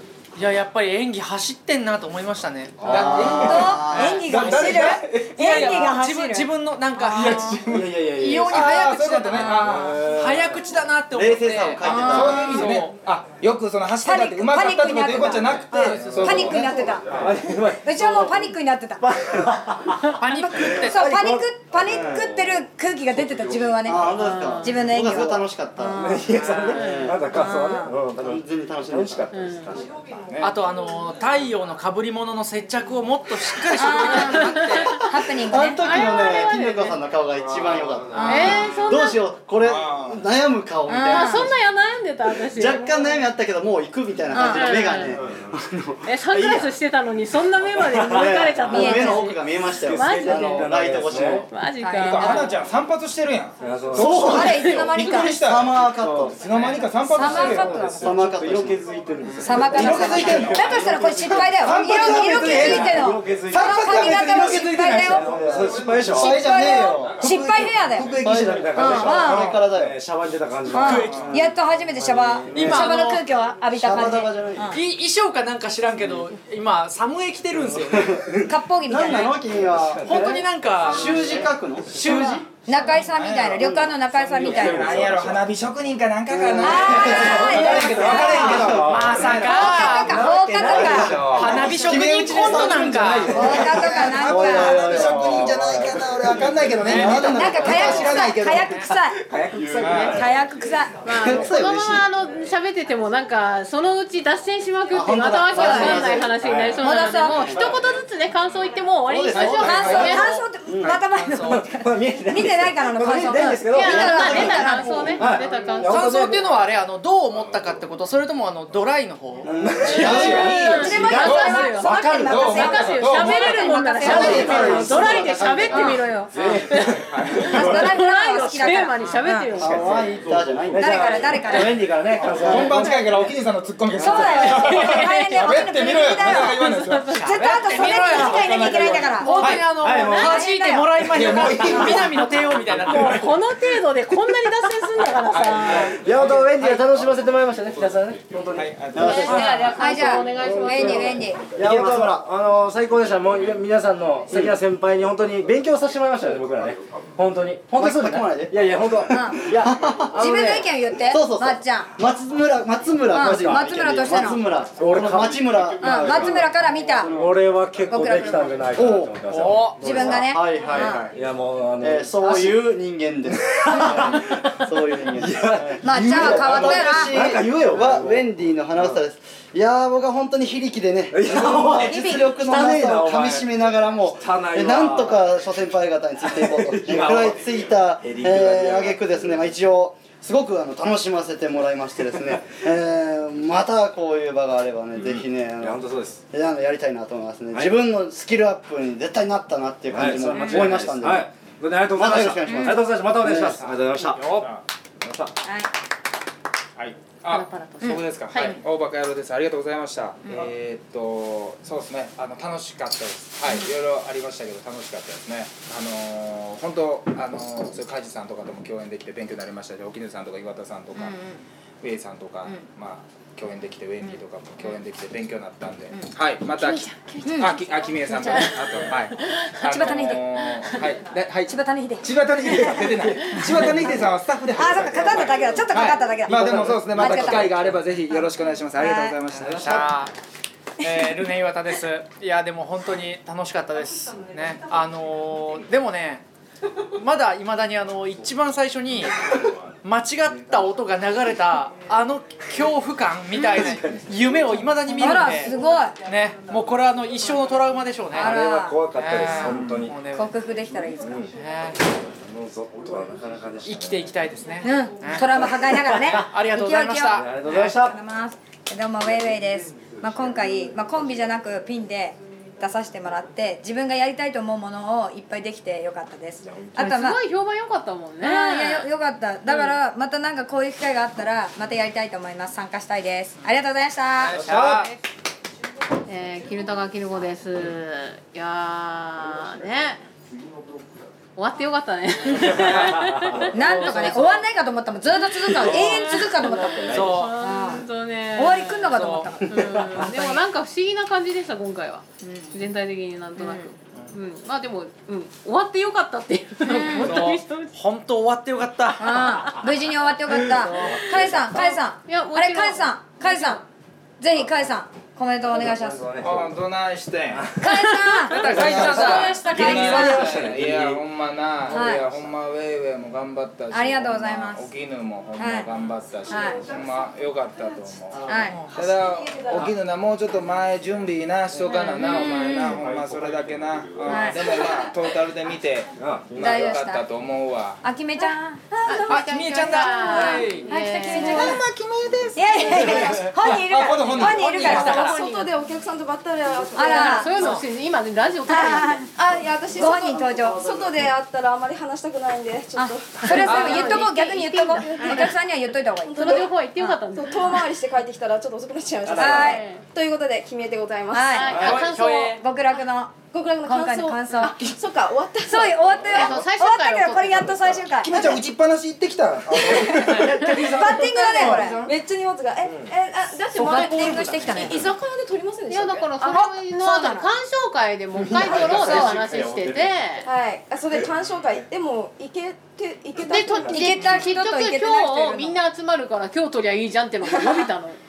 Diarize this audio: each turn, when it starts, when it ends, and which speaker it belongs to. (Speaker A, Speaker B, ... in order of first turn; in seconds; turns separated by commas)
Speaker A: 0.3-4.5, Speaker B: 2.8-3.7, Speaker C: 2.8-5.8, Speaker D: 3.0-4.1, Speaker E: 3.1-6.5, Speaker B: 4.3-5.0, Speaker A: 5.3-7.5, Speaker E: 7.0-7.6, Speaker C: 7.0-9.9, Speaker B: 7.5-8.7, Speaker A: 8.1-12.9, Speaker E: 9.3-10.0, Speaker B: 9.5-10.7, Speaker D: 11.2-12.8, Speaker C: 11.8-17.2, Speaker E: 14.0-19.1, Speaker A: 15.8-16.4, Speaker D: 16.2-17.3, Speaker B: 17.1-20.2, Speaker A: 20.1-21.1, Speaker E: 20.4-26.4, Speaker B: 20.8-21.5, Speaker D: 21.9-22.3, Speaker D: 23.8-26.0, Speaker F: 23.9-25.8, Speaker G: 24.1-24.9, Speaker B: 25.9-30.5, Speaker A: 26.4-26.7, Speaker G: 26.7-27.2, Speaker D: 26.8-27.1, Speaker E: 27.3-27.9, Speaker D: 28.8-29.3, Speaker G: 29.3-29.7, Speaker D: 30.0-30.5, Speaker A: 30.4-35.0, Speaker E: 33.7-35.9, Speaker G: 33.9-35.1, Speaker D: 35.5-41.5, Speaker G: 35.8-37.0, Speaker C: 37.4-38.6, Speaker E: 38.1-38.6, Speaker G: 38.1-39.2, Speaker F: 38.2-38.9, Speaker C: 39.6-40.2, Speaker E: 40.9-41.5, Speaker G: 41.1-43.1, Speaker D: 42.6-46.7, Speaker E: 44.3-45.0, Speaker G: 44.4-45.2, Speaker G: 46.0-52.6, Speaker B: 47.7-48.9, Speaker D: 48.2-51.4, Speaker E: 48.6-49.3, Speaker B: 49.6-51.5, Speaker E: 51.8-52.5, Speaker C: 52.0-58.4, Speaker B: 53.6-54.9, Speaker D: 54.0-54.4, Speaker E: 54.2-55.4, Speaker G: 54.4-55.3, Speaker D: 55.2-56.4, Speaker B: 55.9-66.5, Speaker E: 56.9-58.2, Speaker D: 58.0-58.8, Speaker F: 58.4-58.7, Speaker E: 59.4-65.4, Speaker C: 59.6-69.4, Speaker F: 59.7-60.3, Speaker D: 59.9-62.2, Speaker D: 65.3-65.7, Speaker F: 65.3-65.8, Speaker E: 66.0-68.2, Speaker D: 66.3-67.2, Speaker D: 67.8-69.9, Speaker B: 67.9-71.2, Speaker F: 68.2-69.9, Speaker E: 68.7-69.6, Speaker E: 70.7-74.8, Speaker A: 70.8-71.2, Speaker C: 70.9-71.5, Speaker B: 71.9-73.0, Speaker A: 72.5-73.2, Speaker D: 73.8-74.7, Speaker A: 74.7-78.2, Speaker B: 77.6-78.5, Speaker E: 78.3-79.4, Speaker D: 78.9-82.4, Speaker F: 79.0-80.1, Speaker B: 79.4-82.2, Speaker A: 80.0-82.4, Speaker F: 80.8-81.8, Speaker E: 82.7-85.0, Speaker C: 82.7-83.9, Speaker B: 84.1-85.5, Speaker C: 84.4-90.4, Speaker D: 86.4-87.2, Speaker E: 86.6-88.8, Speaker B: 86.6-100.3, Speaker A: 88.5-93.7, Speaker E: 89.4-91.2, Speaker D: 90.6-93.5, Speaker C: 90.9-98.9, Speaker F: 92.3-93.8, Speaker E: 93.3-95.0, Speaker D: 94.2-96.1, Speaker A: 96.7-98.1, Speaker F: 96.9-97.6, Speaker D: 96.9-97.7, Speaker E: 97.3-99.2, Speaker C: 99.7-100.2, Speaker E: 99.9-101.0, Speaker G: 101.0-110.5, Speaker D: 101.2-102.1, Speaker F: 104.9-105.8, Speaker D: 104.9-106.3, Speaker E: 105.5-106.1, Speaker B: 105.9-107.8, Speaker E: 106.8-107.7, Speaker D: 109.3-110.0, Speaker C: 109.3-111.0, Speaker E: 109.6-115.0, Speaker B: 110.6-116.5, Speaker A: 111.1-111.6, Speaker G: 113.7-116.1, Speaker A: 115.8-119.5, Speaker D: 119.4-120.2, Speaker B: 119.4-122.2, Speaker F: 119.5-120.0, Speaker C: 119.8-125.5, Speaker E: 119.9-123.7, Speaker G: 120.2-127.0, Speaker A: 123.0-125.3, Speaker B: 124.0-125.4, Speaker D: 124.4-124.7, Speaker D: 125.2-125.7, Speaker E: 125.7-126.0, Speaker B: 126.2-127.9, Speaker C: 126.9-127.6, Speaker E: 127.5-129.5, Speaker G: 127.5-130.1, Speaker B: 129.5-133.3, Speaker D: 129.6-131.0, Speaker E: 130.7-132.7, Speaker C: 132.2-137.3, Speaker E: 133.9-139.6, Speaker G: 134.4-135.5, Speaker G: 136.2-140.5, Speaker A: 137.3-138.5, Speaker C: 138.3-139.2, Speaker A: 139.1-143.3, Speaker B: 139.8-140.3, Speaker E: 140.2-142.1, Speaker C: 141.0-142.3, Speaker G: 142.8-146.0, Speaker B: 142.9-143.2, Speaker C: 145.3-149.6, Speaker B: 145.9-149.6, Speaker D: 148.9-149.3, Speaker G: 148.9-151.3, Speaker F: 149.2-149.5, Speaker E: 149.3-151.4, Speaker B: 150.4-160.7, Speaker D: 151.6-152.2, Speaker F: 151.6-152.0, Speaker D: 157.8-160.1, Speaker F: 157.8-158.2, Speaker E: 159.0-159.4, Speaker E: 160.1-162.0, Speaker D: 161.1-169.1, Speaker F: 162.0-163.5, Speaker E: 163.1-164.4, Speaker B: 163.2-163.7, Speaker F: 164.4-165.9, Speaker B: 164.7-166.2, Speaker E: 165.8-167.1, Speaker B: 167.0-172.7, Speaker E: 167.8-168.7, Speaker C: 168.8-169.1, Speaker A: 169.3-169.8, Speaker E: 169.7-171.0, Speaker F: 170.2-170.8, Speaker D: 170.3-171.1, Speaker D: 171.8-195.8, Speaker F: 171.8-172.3, Speaker B: 173.2-179.0, Speaker F: 175.0-175.3, Speaker E: 175.8-177.2, Speaker F: 176.1-178.8, Speaker B: 181.1-189.6, Speaker F: 181.5-181.8, Speaker E: 181.6-182.4, Speaker F: 182.5-183.0, Speaker F: 184.9-185.1, Speaker B: 192.2-192.6, Speaker B: 195.0-196.2, Speaker D: 196.3-201.2, Speaker B: 197.5-197.8, Speaker B: 199.9-204.5, Speaker E: 200.3-200.7, Speaker D: 201.9-203.5, Speaker E: 202.5-202.7, Speaker C: 203.5-204.6, Speaker B: 205.0-205.3, Speaker E: 205.4-205.7, Speaker C: 206.8-221.2, Speaker G: 207.3-208.6, Speaker E: 207.8-208.5, Speaker E: 220.9-221.4, Speaker C: 221.8-239.9, Speaker G: 226.6-230.8, Speaker E: 227.2-228.7, Speaker E: 229.6-230.3, Speaker E: 231.4-233.9, Speaker E: 234.5-237.6, Speaker E: 238.1-239.2, Speaker A: 239.3-240.1, Speaker A: 240.8-246.2, Speaker A: 246.9-258.4, Speaker B: 253.4-254.7, Speaker E: 254.9-255.9, Speaker E: 258.1-258.8, Speaker B: 258.2-260.0, Speaker A: 258.9-260.3, Speaker E: 259.9-261.1, Speaker B: 261.0-261.3, Speaker A: 261.3-261.8, Speaker B: 262.1-264.1, Speaker A: 263.6-267.8, Speaker E: 264.6-277.2, Speaker B: 265.3-266.2, Speaker B: 267.1-268.0, Speaker G: 276.8-278.9, Speaker E: 278.2-284.4, Speaker G: 279.5-279.8, Speaker A: 284.2-284.9, Speaker B: 284.3-284.9, Speaker G: 286.1-290.0, Speaker G: 291.4-294.4, Speaker A: 292.5-294.4, Speaker B: 292.6-293.5, Speaker E: 293.5-300.4, Speaker B: 295.5-297.2, Speaker G: 295.7-296.4, Speaker A: 296.9-297.3, Speaker G: 297.0-307.7, Speaker A: 298.9-299.3, Speaker B: 299.6-300.0, Speaker E: 302.2-302.6, Speaker E: 303.4-303.7, Speaker E: 306.6-307.2, Speaker A: 306.6-309.6, Speaker E: 309.0-313.6, Speaker A: 310.5-310.9, Speaker G: 310.8-313.6, Speaker E: 314.2-316.1, Speaker B: 315.5-316.5, Speaker C: 316.2-317.5, Speaker B: 317.3-321.0, Speaker E: 317.6-320.4, Speaker A: 318.3-319.4, Speaker C: 318.3-337.8, Speaker E: 321.7-322.1, Speaker E: 323.7-324.7, Speaker E: 325.4-325.7, Speaker E: 326.3-326.7, Speaker E: 327.6-329.8, Speaker D: 328.1-328.4, Speaker A: 328.5-328.8, Speaker E: 331.9-332.9, Speaker E: 334.1-334.8, Speaker B: 335.9-336.8, Speaker E: 336.4-337.1, Speaker E: 337.8-339.1, Speaker G: 338.8-341.6, Speaker A: 338.9-340.7, Speaker E: 340.0-341.6, Speaker C: 341.1-345.0, Speaker E: 342.3-345.0, Speaker F: 342.6-343.1, Speaker A: 344.2-345.2, Speaker F: 344.6-347.5, Speaker G: 344.6-345.5, Speaker E: 346.7-347.4, Speaker G: 346.8-349.1, Speaker A: 347.3-347.6, Speaker E: 348.4-349.1, Speaker F: 349.1-354.1, Speaker E: 349.7-350.6, Speaker E: 352.7-357.0, Speaker G: 353.3-355.3, Speaker A: 353.5-354.0, Speaker F: 354.8-355.3, Speaker F: 356.0-356.5, Speaker G: 356.1-357.5, Speaker F: 357.1-361.7, Speaker B: 359.0-359.4, Speaker E: 359.1-359.6, Speaker G: 359.2-359.8, Speaker E: 361.1-361.6, Speaker G: 361.3-362.4, Speaker B: 361.4-361.9, Speaker A: 361.5-362.4, Speaker E: 362.4-364.6, Speaker F: 363.3-366.3, Speaker E: 365.4-368.4, Speaker B: 365.9-366.3, Speaker G: 366.1-367.6, Speaker C: 368.0-370.3, Speaker B: 369.6-371.9, Speaker F: 370.2-376.1, Speaker E: 370.3-371.8, Speaker B: 372.6-372.9, Speaker E: 373.5-374.8, Speaker G: 375.7-380.3, Speaker E: 376.2-377.3, Speaker B: 378.1-379.9, Speaker E: 378.7-379.3, Speaker F: 380.2-383.8, Speaker G: 383.2-388.0, Speaker B: 383.6-384.1, Speaker E: 383.6-385.6, Speaker F: 387.3-387.6